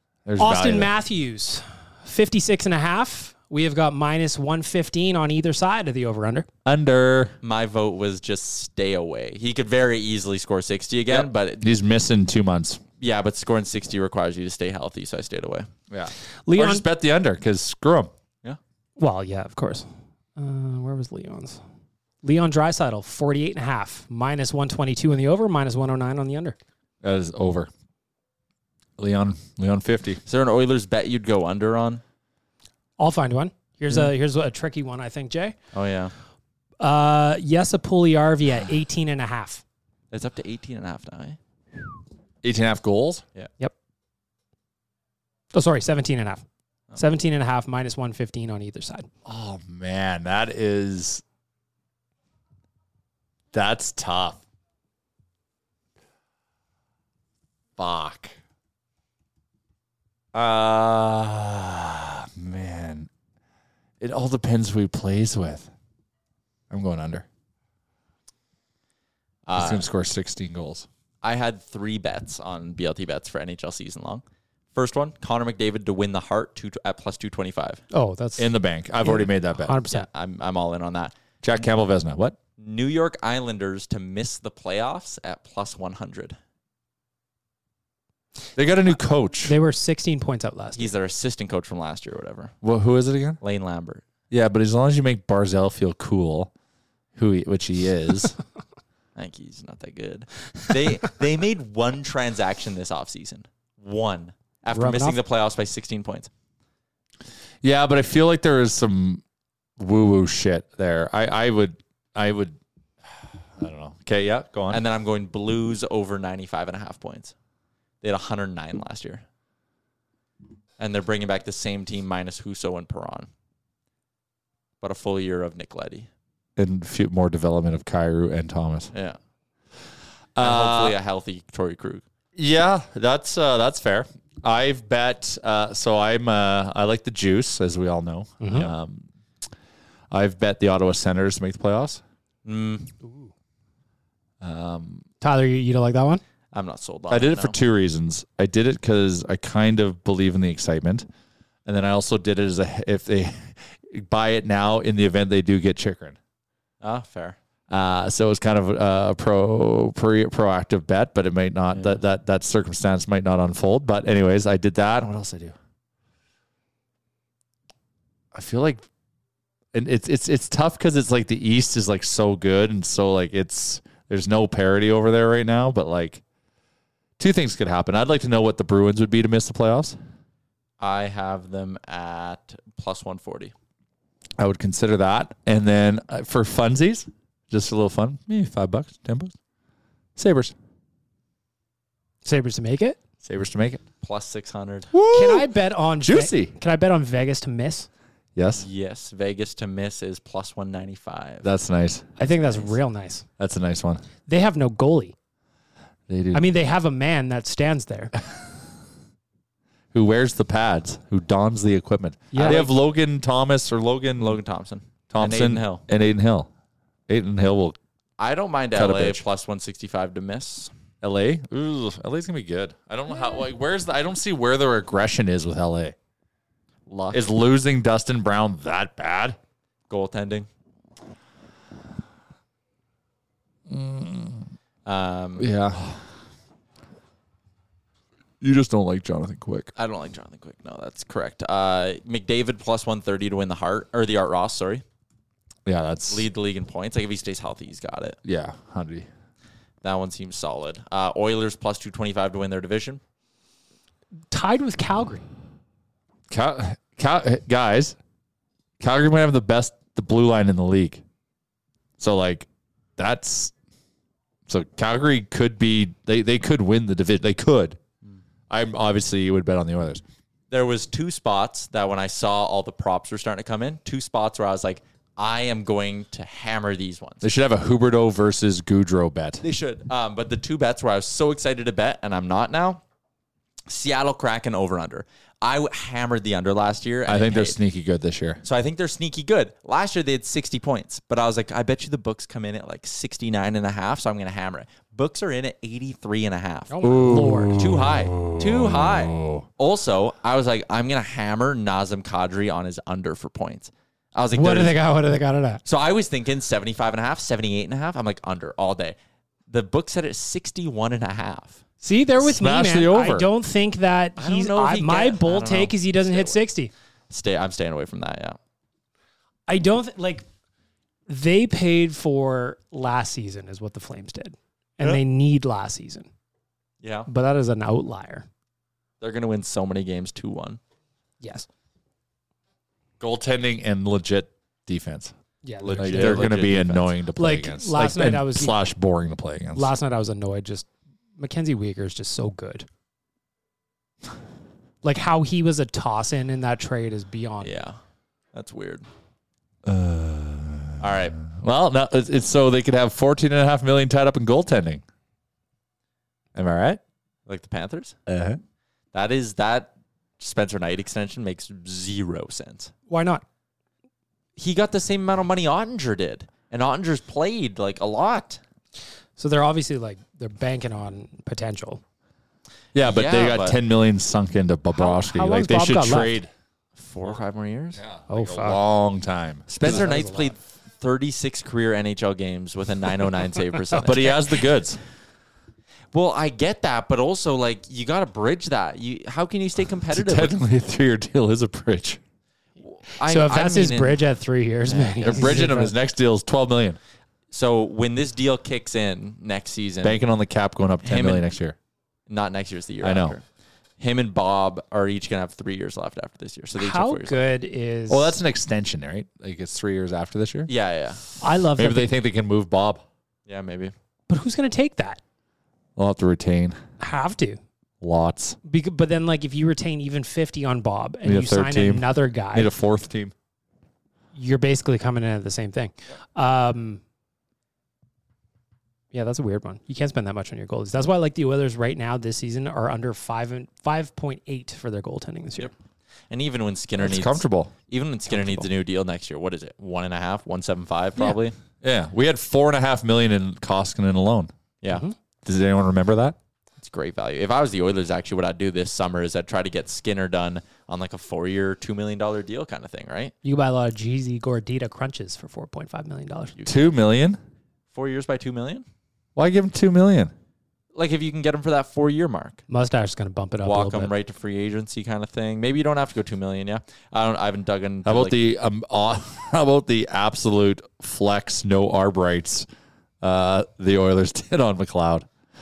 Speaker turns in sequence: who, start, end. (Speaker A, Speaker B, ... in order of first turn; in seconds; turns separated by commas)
Speaker A: 0.2-0.9, Speaker B: 0.4-6.5, Speaker A: 6.6-7.3, Speaker C: 7.4-11.7, Speaker A: 11.1-12.8, Speaker C: 13.0-15.7, Speaker A: 15.9-18.1, Speaker B: 16.4-16.9, Speaker B: 19.0-21.6, Speaker B: 22.2-26.6, Speaker A: 27.0-27.7, Speaker A: 29.0-30.2, Speaker C: 30.2-32.0, Speaker B: 33.0-35.5, Speaker C: 35.7-36.1, Speaker B: 36.8-39.6, Speaker C: 40.1-41.4, Speaker A: 42.4-43.2, Speaker B: 45.5-46.4, Speaker B: 47.0-49.1, Speaker A: 49.2-51.2, Speaker A: 53.5-54.4, Speaker A: 57.8-58.4, Speaker A: 60.3-63.1, Speaker A: 64.0-65.7, Speaker A: 66.7-67.2, Speaker C: 69.5-69.8, Speaker A: 69.5-70.9, Speaker C: 71.2-74.2, Speaker C: 74.7-77.8, Speaker B: 77.9-80.1, Speaker A: 78.4-79.8, Speaker C: 79.9-81.2, Speaker A: 81.4-82.4, Speaker C: 82.6-86.4, Speaker A: 88.5-89.5, Speaker B: 89.4-90.9, Speaker C: 90.8-92.5, Speaker A: 92.6-93.4, Speaker C: 93.4-94.0, Speaker A: 94.3-96.5, Speaker A: 97.2-98.3, Speaker C: 99.2-106.3, Speaker B: 104.7-105.2, Speaker A: 107.6-109.2, Speaker A: 109.8-112.6, Speaker A: 113.6-114.8, Speaker C: 114.7-117.3, Speaker C: 118.0-119.2, Speaker C: 120.8-123.3, Speaker C: 124.8-126.1, Speaker A: 126.5-128.9, Speaker C: 128.9-129.2, Speaker A: 130.3-130.9, Speaker C: 130.4-132.0, Speaker A: 132.3-139.1, Speaker B: 138.4-138.7, Speaker A: 140.1-142.0, Speaker C: 142.4-142.9, Speaker B: 143.0-143.3, Speaker A: 144.4-145.0, Speaker B: 145.2-146.2, Speaker C: 146.5-147.6, Speaker A: 147.1-151.1, Speaker A: 151.7-156.2, Speaker C: 156.8-157.4, Speaker A: 157.7-165.6, Speaker A: 168.3-168.8, Speaker A: 169.7-176.2, Speaker A: 177.2-180.0, Speaker C: 180.8-183.5, Speaker A: 184.4-189.3, Speaker A: 190.2-190.5, Speaker B: 192.2-193.0, Speaker A: 193.2-193.8, Speaker C: 194.0-194.9, Speaker A: 194.9-196.5, Speaker B: 195.1-197.9, Speaker A: 198.3-198.7, Speaker C: 198.6-201.5, Speaker A: 201.4-202.1, Speaker B: 202.2-203.2, Speaker A: 203.4-204.0, Speaker B: 204.3-205.1, Speaker A: 206.1-206.4, Speaker B: 206.3-208.1, Speaker A: 209.9-214.4, Speaker B: 212.3-212.7, Speaker C: 212.4-212.7, Speaker C: 214.2-215.8, Speaker A: 215.1-216.5, Speaker A: 217.1-217.8, Speaker C: 218.2-220.7, Speaker A: 218.7-219.2, Speaker A: 221.0-225.9, Speaker C: 226.9-227.2, Speaker A: 227.1-229.4, Speaker C: 229.9-230.5, Speaker A: 233.7-234.5, Speaker C: 234.8-235.5, Speaker A: 235.4-236.1, Speaker A: 238.4-239.7, Speaker C: 239.8-244.8, Speaker A: 245.7-246.2, Speaker C: 246.1-248.2, Speaker A: 248.2-249.1, Speaker C: 249.8-253.0, Speaker B: 254.3-255.2, Speaker A: 256.3-258.0, Speaker A: 258.8-261.0, Speaker A: 262.0-263.5, Speaker A: 264.5-267.8, Speaker A: 268.5-270.0, Speaker C: 270.5-277.2, Speaker A: 277.2-279.4, Speaker C: 279.4-282.8, Speaker C: 283.7-287.6, Speaker A: 287.1-288.4, Speaker C: 288.4-296.7, Speaker B: 296.7-297.6, Speaker A: 296.8-299.4, Speaker C: 297.5-304.8, Speaker B: 304.3-305.6, Speaker C: 305.6-308.9, Speaker C: 309.5-311.6, Speaker B: 311.8-316.7, Speaker A: 312.2-313.3, Speaker C: 314.2-316.4, Speaker C: 317.1-318.4, Speaker B: 319.5-320.2, Speaker B: 321.1-326.1, Speaker C: 326.8-327.1, Speaker B: 327.1-328.2, Speaker C: 329.0-330.6, Speaker B: 331.2-331.5, Speaker A: 333.0-335.1, Speaker B: 335.4-336.3, Speaker C: 335.6-336.9, Speaker A: 335.8-339.7, Speaker B: 337.2-338.5, Speaker B: 339.5-342.7, Speaker B: 344.8-347.5, Speaker C: 347.4-347.8, Speaker C: 348.3-348.9, Speaker A: 349.6-354.8, Speaker C: 350.8-351.2, Speaker A: 356.3-356.8, Speaker C: 357.3-358.0, Speaker A: 358.1-358.4, Speaker C: 358.9-362.7, Speaker B: 362.9-363.2, Speaker C: 364.4-368.4, Speaker B: 369.2-371.8, Speaker A: 372.7-376.3, Speaker C: 372.8-373.6, Speaker B: 374.7-376.2, Speaker C: 376.8-377.8, Speaker A: 377.8-379.9, Speaker B: 378.1-378.6, Speaker C: 379.5-384.4, Speaker B: 379.6-380.3, Speaker A: 383.8-384.8, Speaker C: 385.9-390.4, Speaker A: 389.9-392.0, Speaker C: 392.6-394.0, Speaker B: 393.0-395.7, Speaker C: 394.7-395.4, Speaker A: 395.0-396.8, Speaker C: 397.3-400.0, Speaker A: 399.8-401.6, Speaker C: 400.8-401.2, Speaker C: 402.1-403.2, Speaker A: 402.8-403.1, Speaker C: 403.8-407.1, Speaker B: 406.6-408.2, Speaker A: 407.9-410.5, Speaker C: 410.5-411.0, Speaker B: 411.2-411.9, Speaker A: 411.5-412.8, Speaker C: 413.3-413.7, Speaker B: 414.1-415.0, Speaker A: 415.8-416.6, Speaker B: 416.8-417.4, Speaker A: 417.8-418.4, Speaker B: 418.4-422.5, Speaker A: 421.0-423.1, Speaker B: 424.1-426.8, Speaker B: 428.9-435.5, Speaker C: 436.1-441.4, Speaker A: 436.8-437.5, Speaker A: 441.6-444.3, Speaker A: 445.2-446.1, Speaker C: 446.6-453.1, Speaker B: 453.2-456.4, Speaker C: 456.4-456.7, Speaker A: 456.4-457.2, Speaker C: 457.7-458.6, Speaker A: 459.1-460.1, Speaker C: 460.7-462.4, Speaker B: 462.5-463.9, Speaker C: 463.4-468.2, Speaker A: 467.8-472.5, Speaker A: 473.0-475.1